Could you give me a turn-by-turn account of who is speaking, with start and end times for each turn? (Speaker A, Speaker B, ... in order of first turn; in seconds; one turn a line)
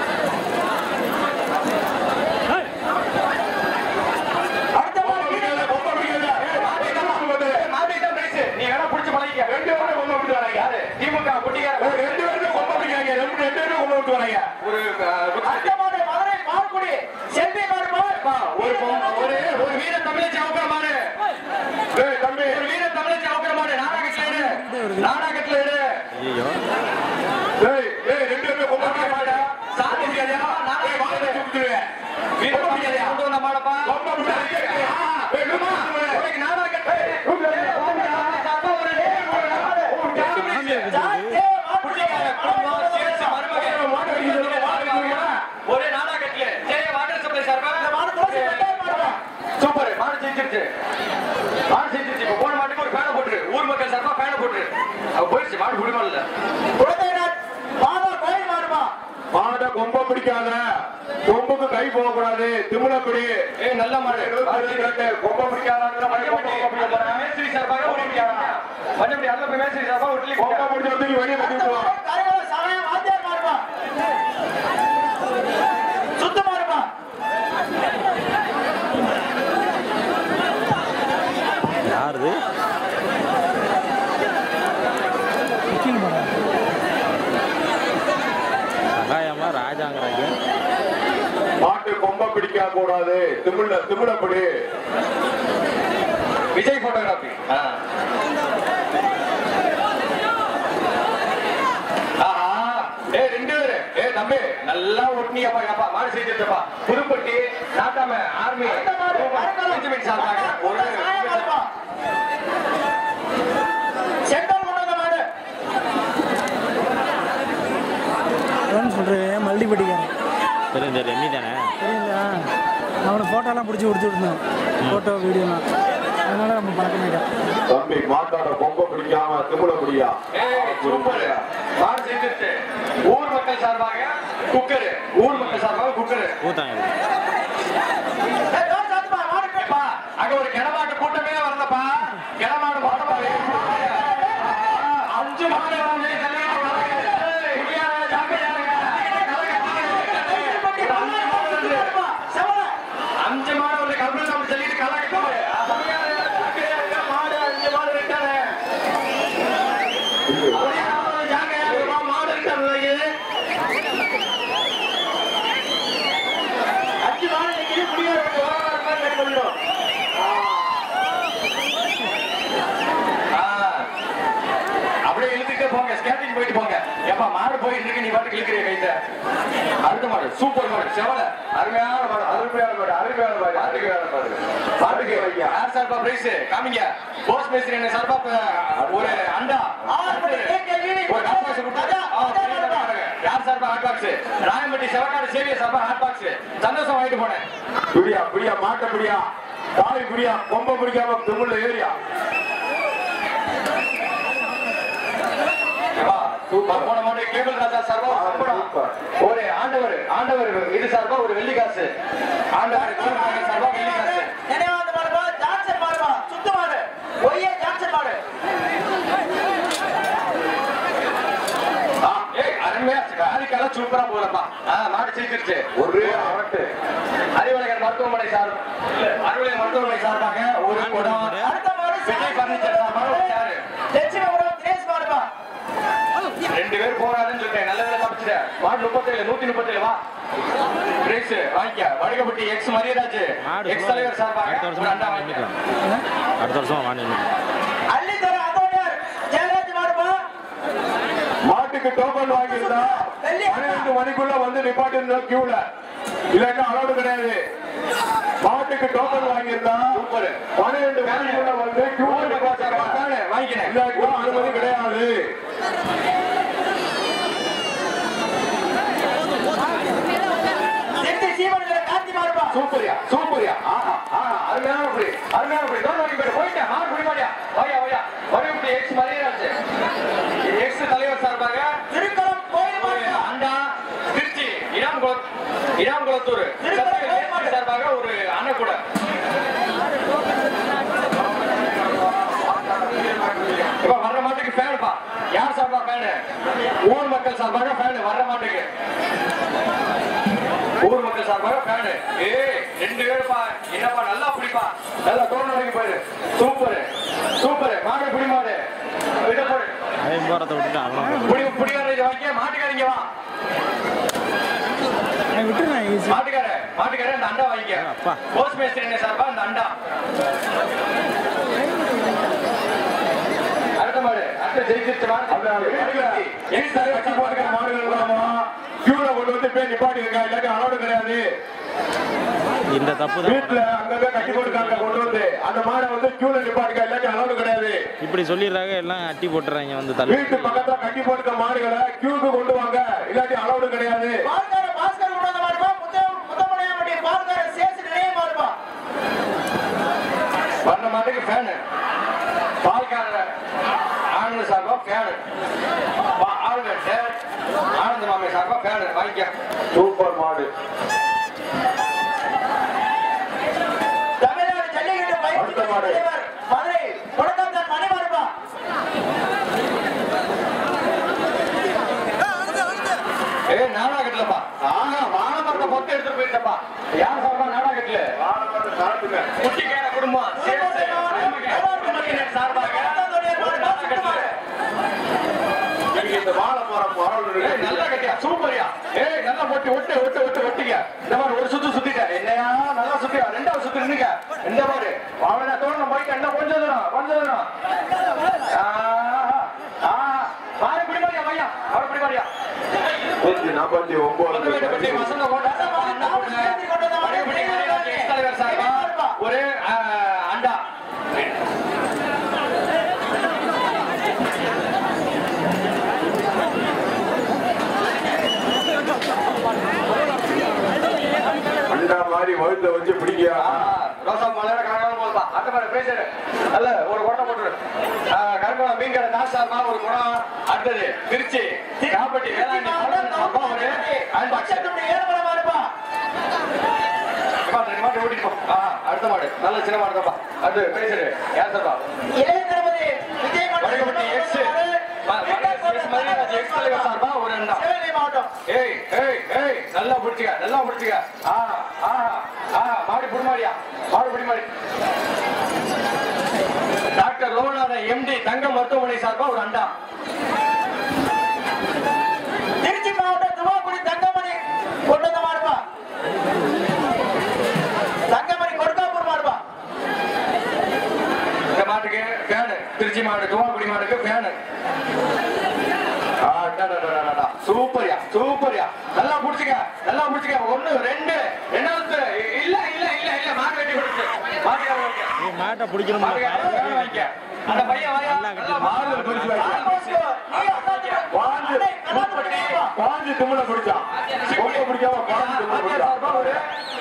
Speaker A: 4.8-5.8
Speaker B: 5.0-7.7
Speaker C: 6.4-12.5
Speaker B: 9.5-10.7
Speaker B: 11.8-14.5
Speaker C: 14.6-15.7
Speaker A: 15.4-19.4
Speaker C: 18.2-21.1
Speaker B: 21.9-22.6
Speaker C: 22.4-25.9
Speaker D: 23.9-25.1
Speaker E: 26.1-26.6
Speaker B: 27.6-31.9
Speaker C: 28.8-31.4
Speaker C: 32.4-40.9
Speaker B: 32.4-33.2
Speaker B: 33.8-36.3
Speaker B: 36.9-38.4
Speaker A: 38.9-40.0
Speaker B: 39.6-40.8
Speaker E: 40.2-41.4
Speaker A: 40.9-43.4
Speaker C: 41.8-50.7
Speaker B: 43.5-45.4
Speaker A: 47.8-49.2
Speaker C: 51.7-56.2
Speaker A: 56.8-58.9
Speaker B: 59.3-60.6
Speaker B: 61.3-63.4
Speaker C: 63.6-64.9
Speaker B: 64.1-67.2
Speaker C: 66.0-70.7
Speaker B: 67.8-68.5
Speaker B: 70.4-72.0
Speaker A: 71.4-73.6
Speaker A: 76.2-76.9
Speaker E: 81.8-82.4
Speaker D: 85.7-86.3
Speaker E: 89.0-90.3
Speaker B: 91.6-94.5
Speaker C: 96.5-97.8
Speaker C: 102.2-111.5
Speaker A: 108.6-111.7
Speaker A: 114.3-115.2
Speaker D: 118.7-120.1
Speaker E: 120.7-121.7
Speaker D: 121.8-122.5
Speaker D: 123.0-125.6
Speaker D: 126.3-127.3
Speaker B: 127.7-131.4
Speaker C: 130.3-136.4
Speaker E: 135.3-135.6
Speaker E: 136.4-136.9
Speaker A: 138.5-139.8
Speaker C: 139.6-151.9
Speaker A: 143.5-144.5
Speaker A: 149.2-152.7
Speaker C: 153.2-158.5
Speaker B: 160.3-160.9
Speaker C: 160.5-163.1
Speaker A: 167.0-169.6
Speaker C: 173.3-173.9
Speaker C: 175.1-179.0
Speaker C: 179.8-182.4
Speaker B: 182.2-184.0
Speaker C: 183.5-190.5
Speaker B: 184.8-185.6
Speaker B: 188.8-189.3
Speaker A: 189.9-192.9
Speaker C: 191.1-197.4
Speaker B: 197.9-201.9
Speaker C: 206.0-208.7
Speaker B: 206.0-206.9
Speaker B: 208.1-208.9
Speaker C: 209.2-211.9
Speaker C: 212.6-214.3
Speaker A: 212.7-218.2
Speaker B: 222.0-222.3
Speaker C: 222.3-226.3
Speaker B: 225.8-226.7
Speaker C: 227.4-231.4
Speaker E: 230.7-231.6
Speaker A: 231.4-235.3
Speaker C: 232.1-233.6
Speaker C: 236.5-240.0
Speaker C: 241.0-245.4
Speaker E: 243.4-245.5
Speaker E: 246.4-247.3
Speaker A: 247.9-250.2
Speaker B: 251.5-255.6
Speaker A: 252.3-253.9
Speaker B: 256.3-257.4
Speaker B: 258.4-260.0
Speaker C: 259.9-260.4
Speaker B: 260.6-263.1
Speaker C: 261.0-261.5
Speaker C: 262.0-264.6
Speaker B: 263.6-265.2
Speaker A: 271.0-272.6
Speaker C: 272.5-279.6
Speaker C: 280.4-281.7
Speaker A: 281.9-283.3
Speaker C: 282.8-285.3
Speaker C: 285.8-288.8
Speaker A: 286.6-287.6
Speaker B: 293.0-293.7
Speaker C: 293.8-296.2
Speaker C: 296.9-298.7
Speaker C: 300.8-306.9
Speaker C: 307.4-308.6
Speaker C: 309.2-309.7
Speaker E: 310.0-311.6
Speaker D: 310.9-311.6
Speaker C: 311.3-313.1
Speaker D: 315.3-316.2
Speaker C: 316.1-319.7
Speaker E: 317.8-318.2
Speaker C: 323.8-328.3
Speaker B: 325.3-331.2
Speaker E: 332.7-335.2
Speaker B: 333.2-337.8
Speaker E: 338.0-341.1
Speaker B: 340.1-344.2
Speaker A: 344.2-348.6
Speaker C: 350.6-351.6
Speaker C: 352.6-353.3
Speaker C: 354.1-355.2
Speaker C: 356.1-357.2
Speaker C: 357.8-359.3
Speaker B: 359.7-360.5
Speaker A: 364.2-368.3
Speaker B: 365.3-366.0
Speaker C: 373.5-378.1
Speaker B: 378.2-379.3
Speaker C: 379.4-384.2
Speaker A: 380.4-384.4
Speaker B: 385.9-387.9
Speaker C: 387.4-397.5
Speaker C: 398.5-402.3
Speaker B: 403.2-405.1
Speaker C: 404.3-410.6
Speaker A: 405.4-409.2
Speaker B: 421.7-423.7
Speaker C: 423.4-427.6
Speaker C: 428.1-434.7
Speaker A: 431.8-435.7
Speaker C: 437.4-441.8
Speaker A: 442.2-448.3
Speaker C: 443.6-444.5
Speaker C: 445.1-447.6
Speaker C: 448.5-454.5
Speaker C: 457.0-459.7
Speaker A: 462.6-465.6
Speaker A: 468.1-469.4
Speaker C: 471.5-474.4
Speaker C: 476.2-485.1
Speaker E: 485.2-489.6
Speaker C: 486.0-491.0
Speaker A: 489.4-492.7
Speaker B: 491.1-496.4
Speaker C: 491.9-492.3
Speaker C: 494.2-496.4